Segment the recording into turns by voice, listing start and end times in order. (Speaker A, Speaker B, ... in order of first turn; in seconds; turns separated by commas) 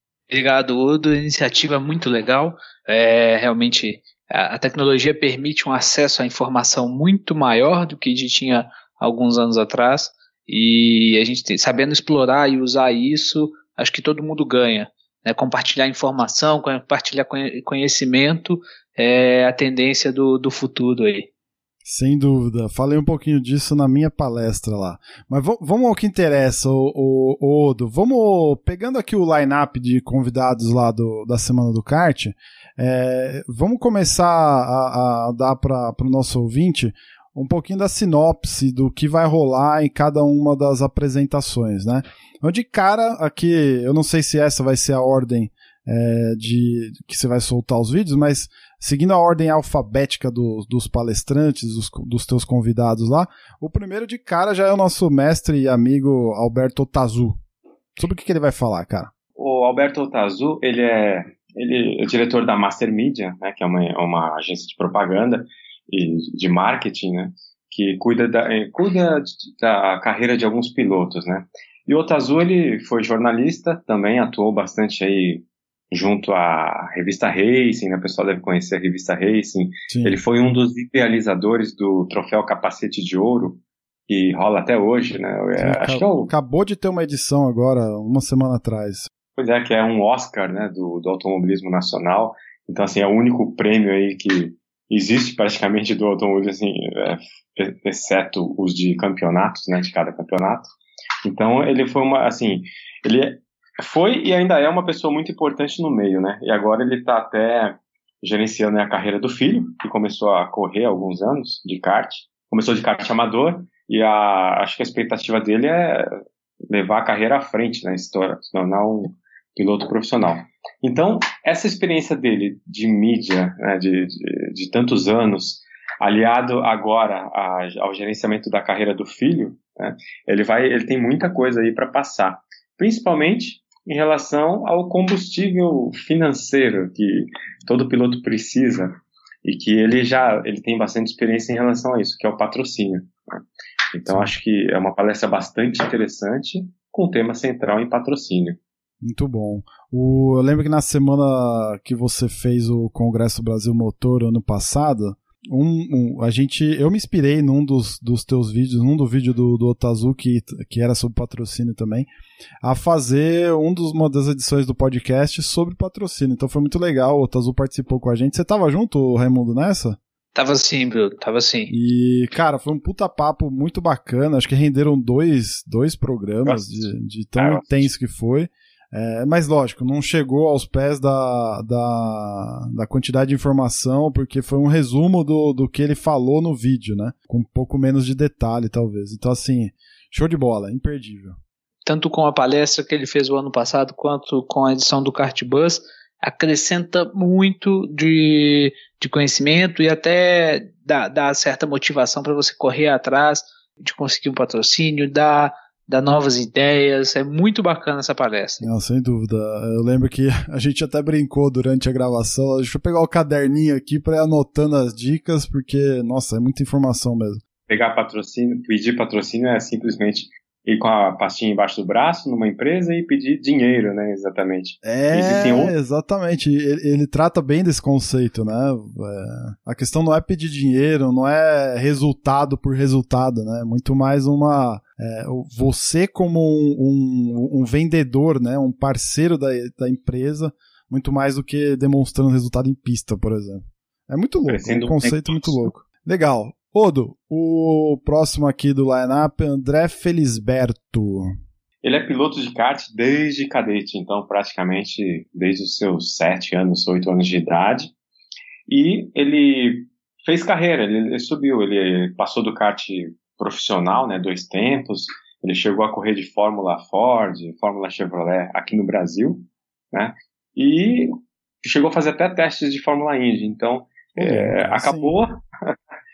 Speaker A: 0.3-21.3, Speaker B: 21.8-57.4, Speaker B: 58.0-59.1, Speaker C: 59.4-86.3, Speaker B: 79.9-80.2, Speaker B: 85.6-89.1, Speaker C: 89.4-100.7, Speaker C: 101.2-116.1, Speaker C: 116.7-138.9, Speaker C: 139.4-143.4, Speaker C: 143.9-148.6, Speaker B: 144.1-144.3, Speaker B: 149.0-162.1, Speaker B: 162.6-170.0, Speaker A: 170.3-171.7, Speaker B: 171.7-191.4, Speaker C: 176.4-177.9, Speaker A: 191.8-208.6, Speaker B: 208.6-217.4, Speaker C: 217.7-225.7, Speaker B: 224.8-251.3, Speaker C: 244.5-245.7, Speaker C: 251.8-257.9, Speaker C: 258.7-275.7, Speaker B: 274.1-275.1